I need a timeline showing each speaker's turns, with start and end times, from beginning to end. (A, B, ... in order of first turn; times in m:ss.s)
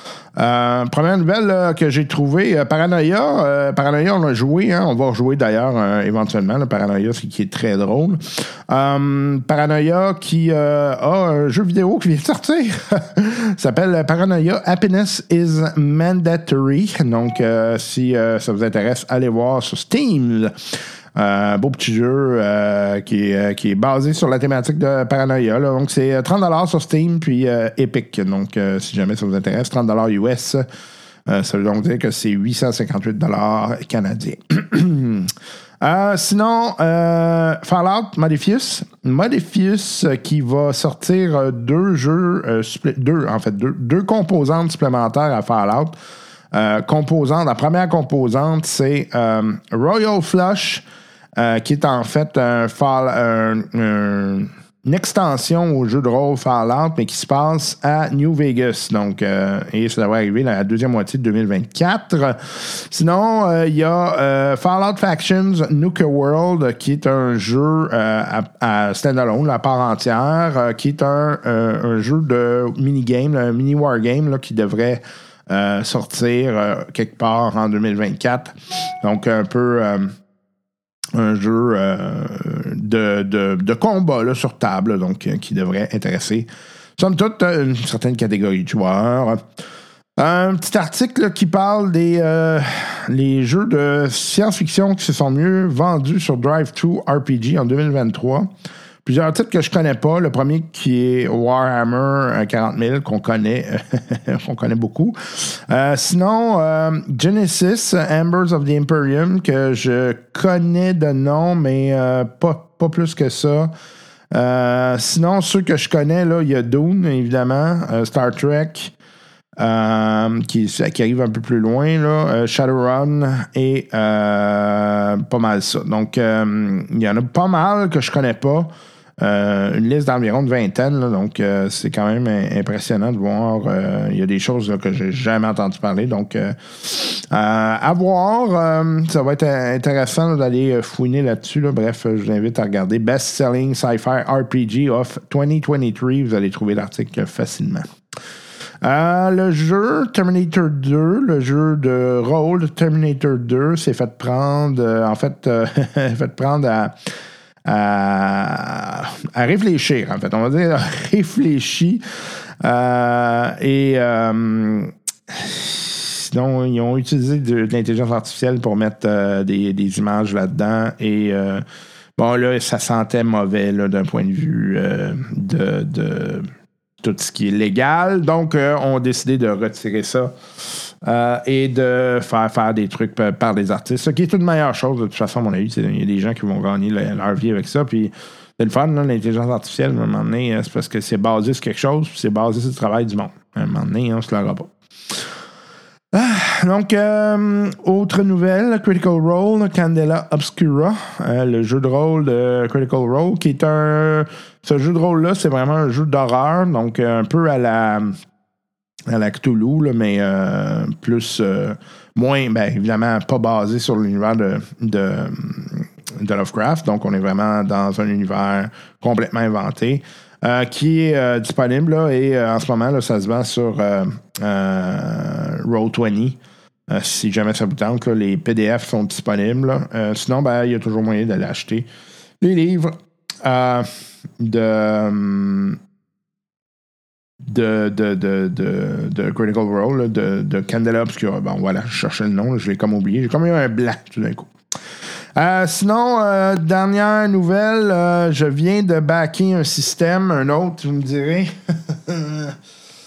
0:00.4-0:20.5 A
0:21.2-0:30.6 A
0:31.3-0:46.0 A
0:46.5-0:50.8 A
0:51.4-1:20.2 A
1:21.1-1:29.4 A
1:30.2-1:38.5 A
1:39.0-1:53.7 A
1:54.3-1:58.9 A
1:59.6-2:27.9 A
2:28.8-2:37.0 A
2:37.6-2:42.0 A
2:42.6-2:51.6 A
2:52.2-2:56.5 A
2:57.0-3:14.7 A
3:16.1-3:28.2 A
3:29.1-3:51.9 A
3:52.4-3:53.9 A
3:54.4-3:55.8 A
3:57.4-4:04.5 A
4:05.4-4:12.6 A